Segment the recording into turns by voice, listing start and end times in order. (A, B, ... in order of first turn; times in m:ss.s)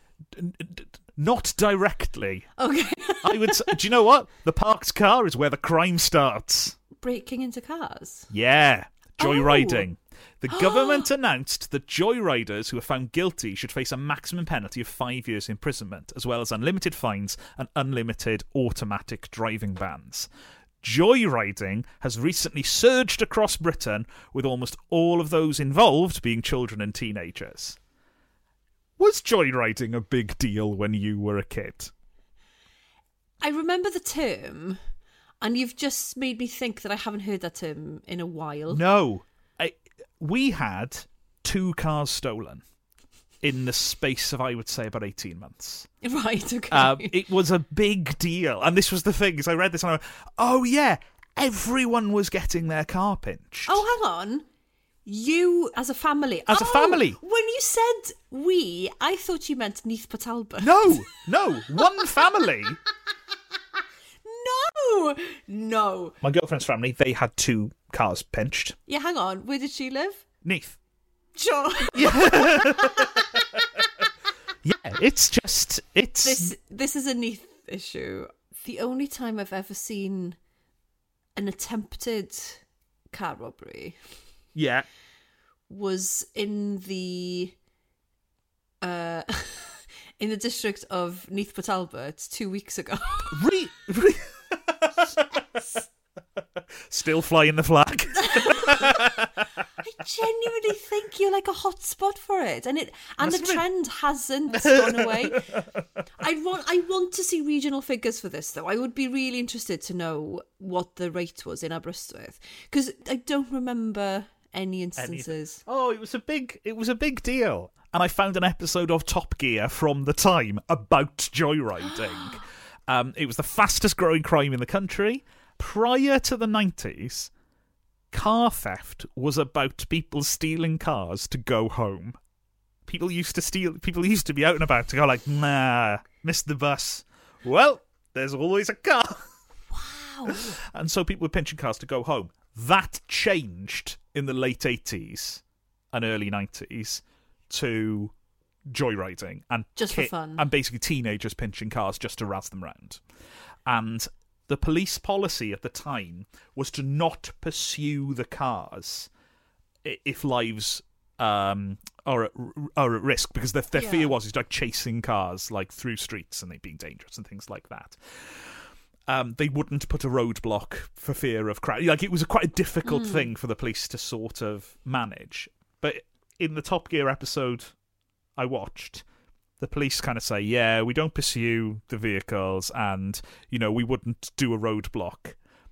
0:00.3-0:02.5 A
0:02.6-0:03.8 B
0:03.2-0:06.8 A
0:07.0-0:08.3 B
0:08.3-0:20.3 A
0:09.2-0:09.9 B
0:10.5-0:11.1 B
0:20.8-0:27.8 A
0:29.0-0:31.9 A
0:33.4-0:34.8 B
0:35.4-0:38.8 B
0:38.7-0:42.6 A
0:43.4-0:45.9 A
0:46.0-0:47.2 B
0:46.7-0:53.8 A
0:53.7-0:54.5 B
0:55.1-1:01.2 B
0:56.5-0:57.2 A
1:00.6-1:02.8 A
1:04.2-1:06.2 B
1:06.2-1:08.8 A
1:08.9-1:10.3 B
1:10.4-1:10.8 A
1:11.4-1:13.4 B
1:12.0-1:13.4 A
1:14.6-1:16.5 A
1:16.2-1:20.4 B
1:21.4-1:24.0 B
1:24.6-1:24.8 A
1:25.7-1:27.6 B
1:28.8-1:33.4 B
1:33.3-1:35.4 A
1:36.8-1:39.3 A
1:38.2-1:39.2 B
1:39.8-1:45.5 B
1:43.2-1:43.6 A
1:44.5-1:45.9 A
1:46.2-1:55.6 B
1:55.0-2:07.3 A
2:01.9-2:02.4 B
2:08.1-2:12.2 A
2:12.9-2:19.3 A
2:19.7-2:20.6 B
2:20.3-2:28.2 A
2:28.7-2:33.0 A
2:29.8-2:30.5 B
2:33.7-2:39.1 A
2:39.8-2:57.8 A
2:43.8-2:44.1 B
2:52.8-2:53.3 B
2:58.4-2:59.0 A
2:59.6-3:05.4 A